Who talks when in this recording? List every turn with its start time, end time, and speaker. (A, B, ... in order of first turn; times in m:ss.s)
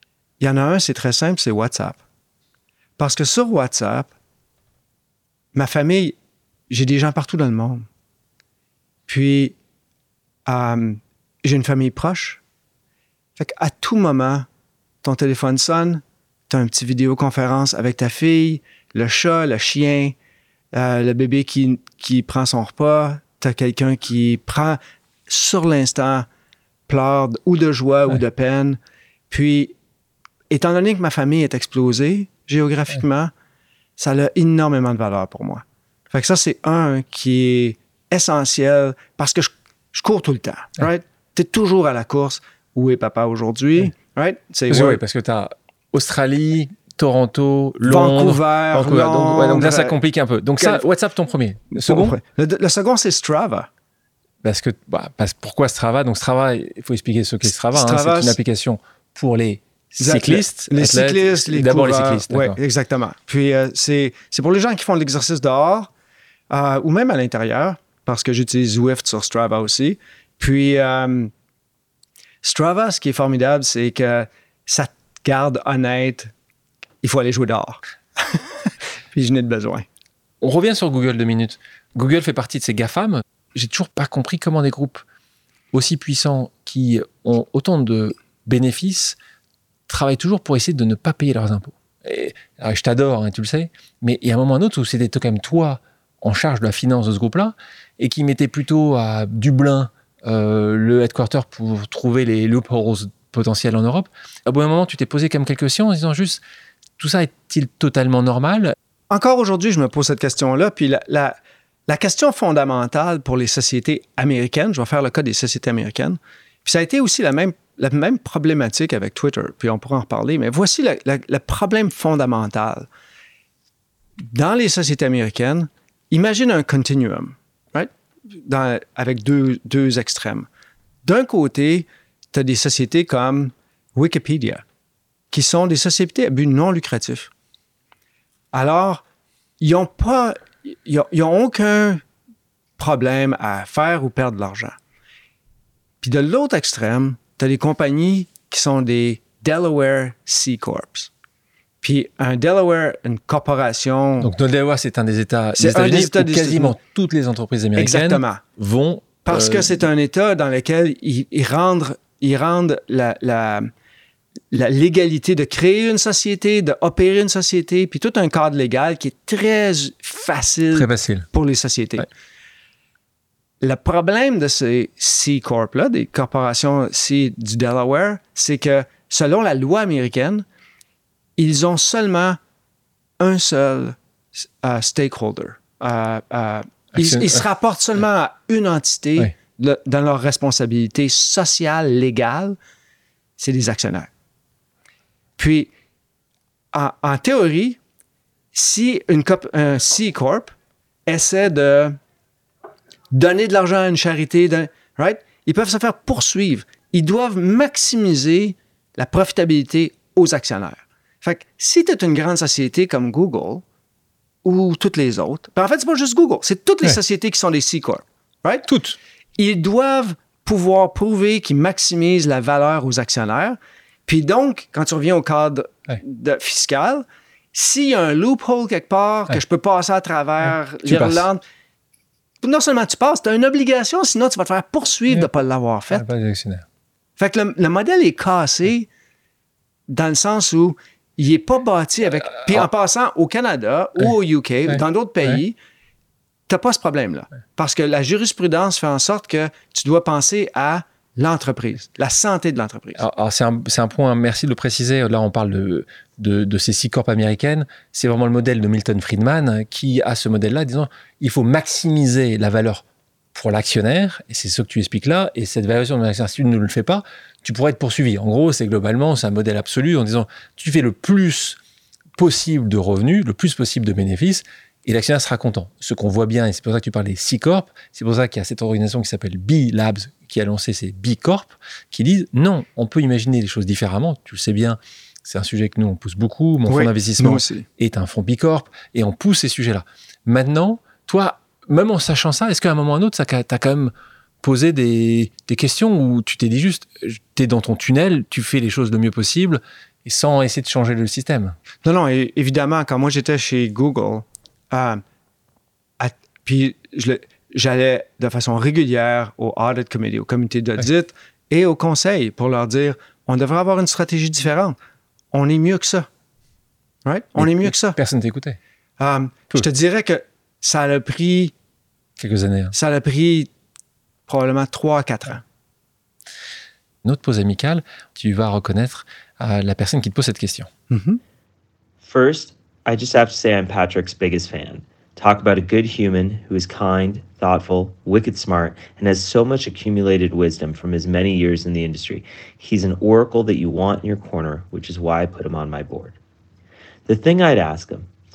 0:00.4-0:02.0 A
0:03.0-0:04.1 A
0:05.5-0:06.2 A
0:06.7-0:07.9 A
0:09.1-0:09.5 A
0:10.4-0:12.4 A
0:13.4-0:14.5 A
0:15.0-0:20.1 A
0:20.7-0:26.3 A
0:26.9-0:28.8 A
0:29.3-0:29.7 A
0:30.5-0:33.3 A
0:34.0-0:45.0 A
0:44.7-0:52.2 B
0:47.8-0:50.0 A
0:50.6-0:50.8 A
0:51.7-0:53.7 A
0:54.4-1:02.6 B
0:57.7-0:58.4 A
1:00.0-1:05.9 A
1:06.5-1:11.3 A
1:12.4-1:16.3 A
1:17.0-1:19.8 A
1:20.4-1:25.0 B
1:25.7-1:29.2 B
1:29.9-1:46.4 B
1:47.0-1:48.7 B
1:49.1-1:51.4 A
1:51.9-2:02.9 A
2:04.2-2:07.9 A
2:08.4-2:10.5 A
2:11.0-2:14.6 A
2:15.3-2:17.3 A
2:18.5-2:19.0 A
2:19.6-2:22.0 A
2:22.8-2:24.8 A
2:26.0-2:31.1 A
2:31.8-2:34.3 A
2:34.2-2:39.8 B
2:35.6-2:36.8 A
2:37.8-2:38.4 A
2:39.2-2:43.7 A
2:44.5-2:52.1 A
2:50.7-2:51.3 B
2:53.6-3:00.4 A
3:01.4-3:02.4 A
3:03.2-3:04.0 A
3:04.6-3:12.6 A
3:06.9-3:07.4 B
3:13.4-3:14.1 A
3:15.4-3:15.7 A
3:16.7-3:17.8 A
3:18.5-3:20.5 A
3:21.1-3:22.0 A
3:23.1-3:33.6 A
3:34.4-3:38.7 A
3:38.7-3:39.0 B
3:39.4-3:51.4 A
3:50.8-3:51.2 B
3:52.4-3:56.0 A
3:55.9-3:56.6 B
3:57.2-3:58.9 A
3:59.9-4:05.6 A
4:04.7-4:05.4 B
4:06.5-4:13.0 A
4:13.0-4:31.6 B
4:32.2-5:01.6 B
4:46.7-4:47.6 A
5:01.8-5:05.0 A
5:06.0-5:14.8 A
5:15.3-5:16.1 A
5:17.0-5:18.0 A
5:17.4-5:18.6 B
5:19.0-5:21.5 A
5:22.2-5:22.7 B
5:22.7-5:23.5 A
5:24.3-5:25.4 A
5:27.0-5:30.7 B
5:30.9-5:31.2 A
5:32.0-5:46.2 C
5:47.1-5:48.1 C